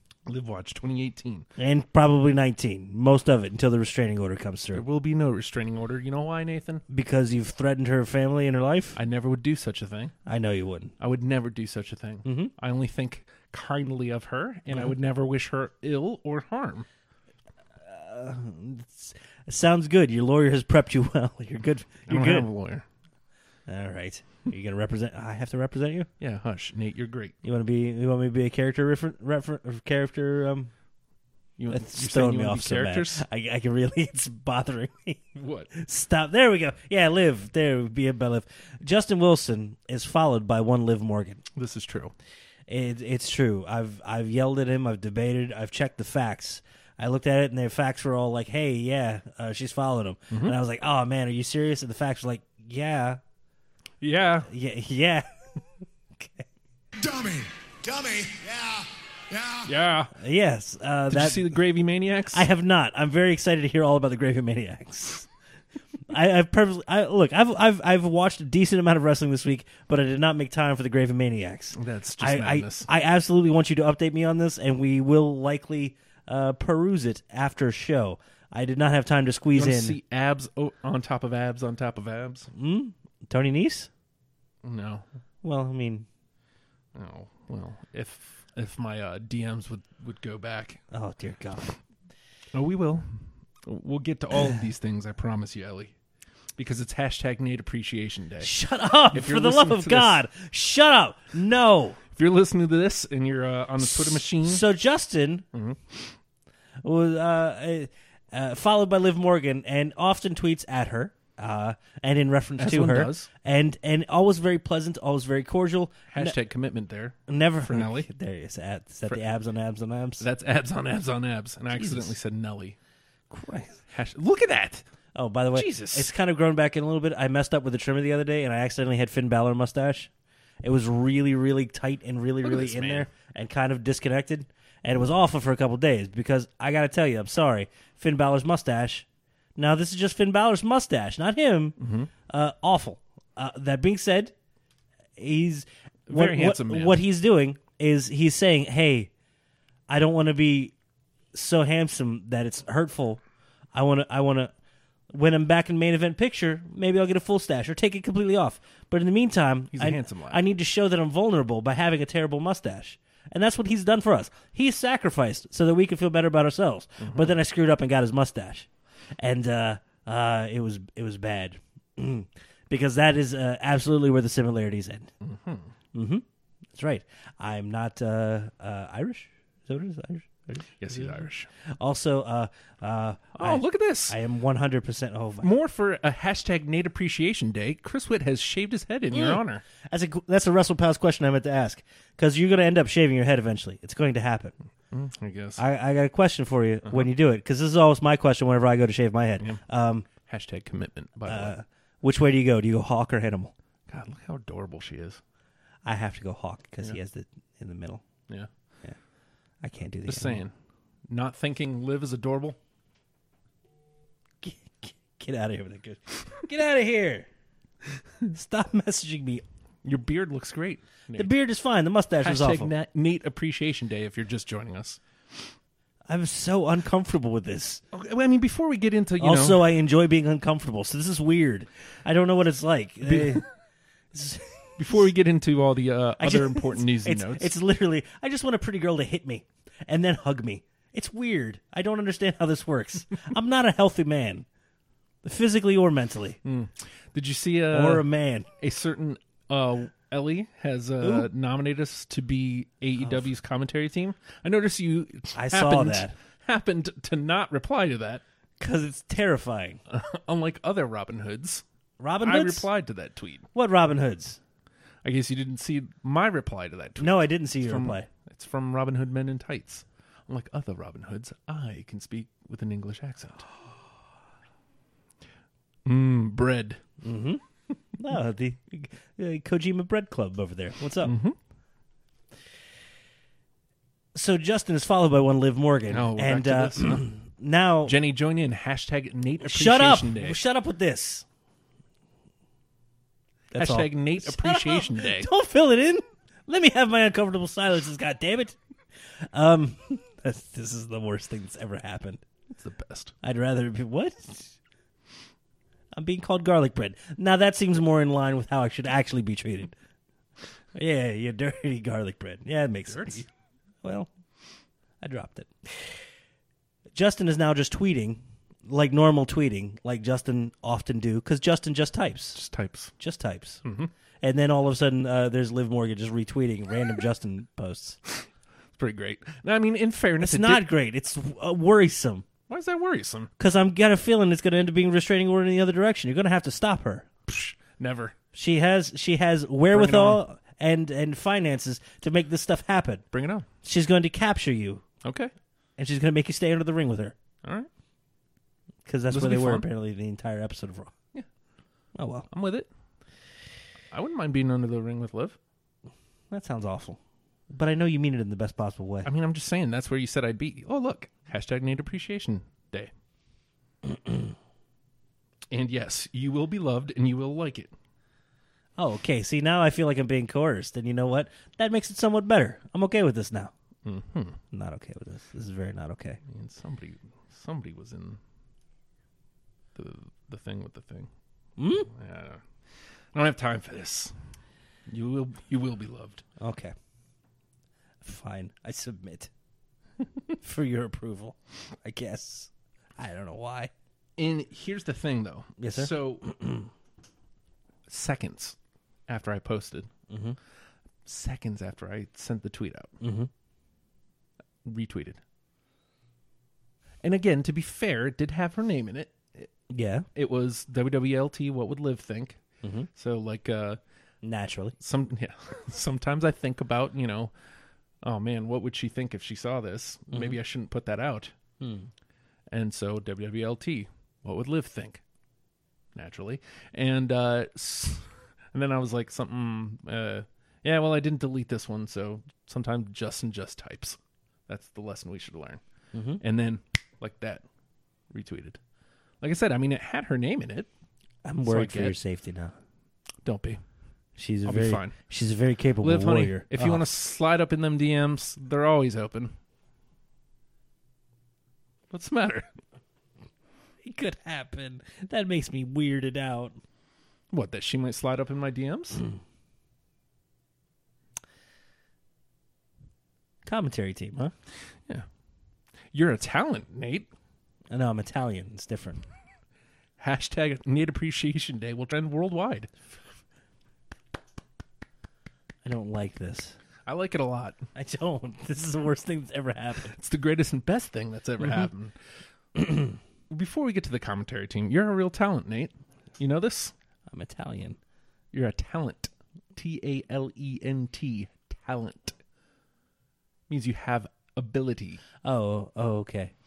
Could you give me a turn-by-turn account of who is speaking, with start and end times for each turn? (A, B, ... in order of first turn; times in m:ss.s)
0:00.3-0:01.5 A
0:01.6-0:04.8 B
0:04.7-0:06.8 A
0:06.9-0:09.0 B
0:09.0-0:10.2 A
0:10.3-0:10.9 B
0:11.0-0:16.9 A
0:12.2-0:12.5 B
0:17.8-0:22.5 B
0:22.1-0:22.9 A
0:23.7-0:26.1 B
0:26.2-0:27.4 A
0:27.4-0:30.7 B
0:31.6-0:33.2 A
0:31.7-0:41.4 B
0:35.4-0:35.7 A
0:41.6-0:42.2 A
0:42.7-0:53.2 B
0:50.3-0:50.6 A
0:54.0-0:54.5 A
0:54.5-0:55.3 B
0:56.2-0:56.5 B
0:57.0-0:59.7 C
0:59.7-1:00.1 A
1:00.2-1:01.5 B
1:01.1-1:02.5 A
1:02.3-1:05.3 B
1:06.1-1:20.0 B
1:11.8-1:12.9 A
1:19.6-1:22.5 A
1:22.5-1:23.9 B
1:24.6-1:25.1 A
1:25.4-1:26.1 B
1:26.9-1:30.8 A
1:30.9-1:31.8 B
1:32.5-1:33.1 A
1:33.6-1:35.9 A
1:36.6-1:38.5 A
1:38.4-1:42.0 B
1:39.1-1:40.2 A
1:42.1-1:44.6 A
1:44.4-1:45.5 B
1:45.5-1:46.1 A
1:46.8-1:56.4 B
1:52.6-1:53.3 A
1:56.1-1:58.1 A
1:57.3-2:00.3 B
2:00.2-2:02.8 A
2:01.7-2:02.1 B
2:03.3-2:03.8 B
2:03.9-2:04.8 A
2:05.2-2:10.1 B
2:05.5-2:06.1 A
2:10.6-2:21.8 B
2:12.4-2:13.1 A
2:21.8-2:22.1 A
2:22.3-2:24.3 B
2:25.2-2:29.1 B
2:26.1-2:27.0 A
2:29.9-2:30.8 B
2:31.3-2:33.2 B
2:33.7-2:34.5 B
2:35.1-2:55.1 B
2:39.7-2:40.4 A
2:47.0-2:47.4 A
2:55.2-2:55.7 A
2:55.9-3:01.3 B
3:00.8-3:01.5 A
3:01.8-3:05.5 B
3:03.4-3:04.2 A
3:05.4-3:09.6 A
3:09.1-3:14.6 B
3:14.9-3:15.6 A
3:15.6-3:20.1 B
3:20.2-3:21.5 A
3:21.3-3:23.5 B
3:23.9-3:25.2 A
3:25.8-3:28.0 B
3:29.6-3:30.4 B
3:30.1-3:30.5 A
3:31.1-3:32.6 A
3:34.4-3:37.3 B
3:38.3-3:39.4 B
3:39.8-3:41.3 A
3:41.1-3:42.7 B
3:42.2-3:45.0 A
3:46.1-3:47.8 B
3:47.9-3:49.7 A
3:49.2-3:53.5 B
3:53.1-3:53.4 A
3:54.1-3:54.8 B
3:54.8-3:57.5 A
3:56.2-4:04.5 B
4:05.2-4:06.4 B
4:06.4-4:08.1 A
4:07.7-4:08.5 B
4:08.6-4:18.2 A
4:11.0-4:11.3 B
4:15.3-4:16.1 B
4:18.6-4:19.8 B
4:19.9-4:21.6 A
4:22.0-4:22.7 B
4:22.2-4:23.5 A
4:23.5-4:24.4 B
4:25.0-4:33.5 A
4:27.0-4:28.1 B
4:35.8-4:36.8 A
4:37.0-4:37.4 B
4:38.0-4:41.2 B
4:41.0-4:41.4 A
4:44.2-4:48.0 B
4:45.9-4:47.1 A
4:47.9-4:50.4 A
4:49.4-4:51.3 B
4:53.5-4:58.6 B
4:53.6-4:55.3 A
4:59.2-5:02.2 B
5:02.5-5:03.1 A
5:03.2-5:04.6 B
5:05.9-5:09.7 B
5:10.7-5:13.2 B
5:12.9-5:13.3 A
5:13.8-5:14.1 B
5:15.0-5:15.9 B
5:16.9-5:22.4 B
5:22.4-5:22.9 A
5:23.0-5:23.6 B
5:23.6-5:23.9 A
5:24.2-5:28.0 B
5:28.8-5:30.7 A
5:30.2-5:32.3 B
5:32.5-5:33.3 A
5:33.4-5:37.1 B
5:37.3-5:38.2 A
5:38.3-5:43.0 B
5:39.7-5:40.2 A
5:43.1-5:43.5 A
5:43.6-5:44.8 B
5:45.0-5:45.3 A
5:45.8-5:47.2 B
5:47.4-5:47.7 A
5:48.8-5:50.9 B
5:49.1-5:49.7 A
5:52.0-5:52.3 B
5:52.3-5:52.7 A
5:53.9-5:55.4 A
5:56.3-5:57.0 B
5:57.5-5:59.1 B
5:59.0-6:02.9 A
6:05.5-6:07.7 A
6:08.8-6:13.5 B
6:13.8-6:14.4 A
6:14.5-6:16.2 B
6:16.3-6:18.2 A
6:19.8-6:21.1 A
6:21.6-6:21.9 B
6:21.9-6:22.4 A
6:23.1-6:24.1 A
6:24.9-6:26.2 A
6:26.4-6:26.7 B
6:28.0-6:29.3 B
6:30.4-6:33.7 B
6:34.2-6:36.3 A
6:35.6-6:36.7 B
6:37.9-6:38.6 A
6:39.1-6:39.9 A
6:40.1-6:40.4 B
6:41.0-6:42.9 A
6:43.0-6:43.3 B
6:44.6-6:45.2 A
6:47.0-6:49.5 A
6:49.7-6:50.1 B
6:50.2-6:52.4 A
6:52.6-6:52.9 B
6:52.9-6:53.8 A
6:54.2-6:54.8 B
6:54.8-6:57.3 A
6:58.0-7:01.3 A
7:00.1-7:00.4 B
7:01.6-7:01.9 B
7:02.5-7:05.0 A
7:06.0-7:15.6 A
7:15.9-7:16.2 B
7:16.2-7:17.4 A
7:18.1-7:18.6 A
7:19.2-7:20.7 A
7:21.2-7:22.6 B
7:21.4-7:22.0 A
7:23.2-7:23.6 A
7:24.2-7:26.8 B
7:24.5-7:25.0 A
7:25.8-7:29.3 A
7:31.9-7:32.5 A
7:33.8-7:36.6 B
7:37.3-7:39.0 A
7:43.5-7:44.3 B
7:45.9-7:47.1 A
7:47.7-7:49.0 B
7:50.0-7:52.7 A
7:55.6-7:56.6 B
7:56.9-7:57.6 A
7:57.8-8:00.0 B
7:59.9-8:02.0 A
8:03.3-8:06.7 A
8:07.1-8:07.8 B
8:08.3-8:12.2 A
8:13.5-8:15.0 A
8:15.2-8:16.3 B